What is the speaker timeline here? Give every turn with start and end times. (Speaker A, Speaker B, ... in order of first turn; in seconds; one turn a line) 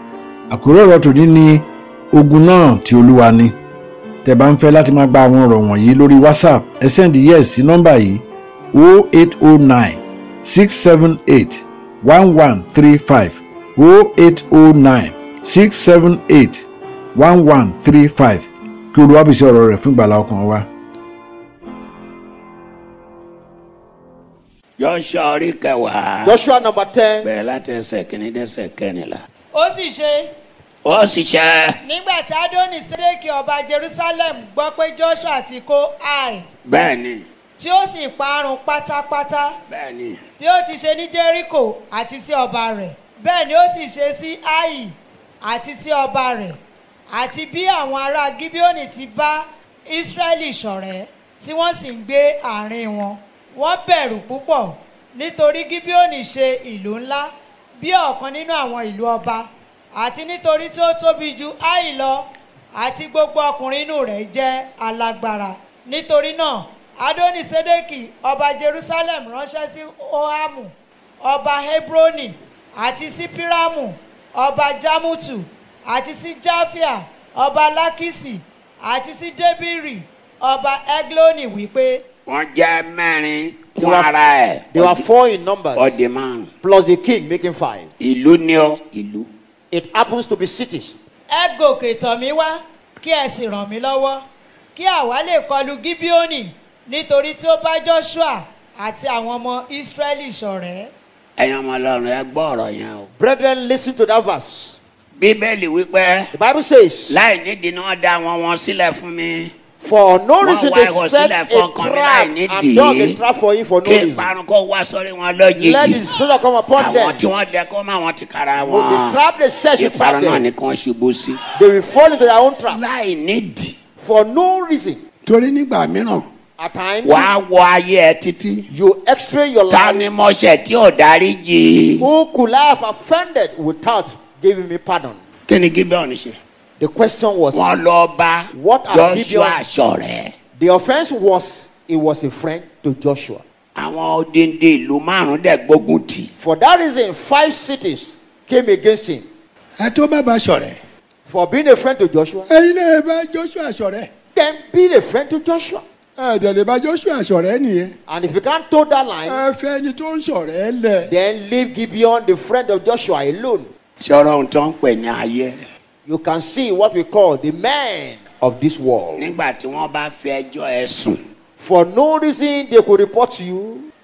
Speaker A: 0.5-3.5
Speaker A: 4.2-20.7
Speaker B: 24.8-26.4
Speaker C: 26.2-27.3
Speaker B: 27.2-29.2
Speaker D: 29.5-30.3
Speaker B: 30.8-31.8
Speaker D: 31.8-36.4
Speaker B: 36.6-37.2
Speaker D: 37.6-39.5
Speaker B: 39.7-40.2
Speaker D: 40.4-46.6
Speaker D: 47.1-82.0
Speaker B: 82.3-85.0
Speaker C: 83.8-84.2
Speaker C: 84.7-86.0
Speaker B: 85.7-86.5
Speaker C: 86.6-87.9
Speaker B: 88.0-89.3
Speaker C: 89.7-90.9
Speaker D: 91.3-94.2
Speaker D: 94.7-100.9
Speaker B: 101.4-103.1
Speaker C: 103.2-104.8
Speaker B: 105.2-106.3
Speaker C: 106.3-107.2
Speaker B: 107.1-109.5
Speaker C: 109.8-114.3
Speaker B: 110.4-113.2
Speaker B: 113.8-116.0
Speaker C: 115.5-117.2
Speaker B: 116.8-119.2
Speaker C: 118.6-120.4
Speaker B: 119.8-121.4
Speaker C: 121.5-122.8
Speaker B: 122.7-123.7
Speaker C: 124.0-125.0
Speaker B: 125.2-126.2
Speaker C: 126.6-127.3
Speaker B: 127.0-128.7
Speaker C: 128.7-130.1
Speaker B: 129.7-132.1
Speaker C: 132.0-135.2
Speaker B: 135.5-136.4
Speaker C: 136.8-137.6
Speaker B: 137.5-140.3
Speaker C: 138.5-139.6
Speaker C: 140.6-143.4
Speaker B: 143.8-146.3
Speaker C: 146.4-149.2
Speaker E: 149.8-150.7
Speaker C: 151.3-152.5
Speaker E: 152.5-154.1
Speaker C: 154.3-155.8
Speaker E: 156.2-157.9
Speaker C: 158.1-159.4
Speaker E: 159.2-161.1
Speaker C: 161.1-163.7
Speaker B: 164.0-165.6
Speaker C: 166.1-169.3
Speaker B: 169.2-171.2
Speaker C: 171.6-173.9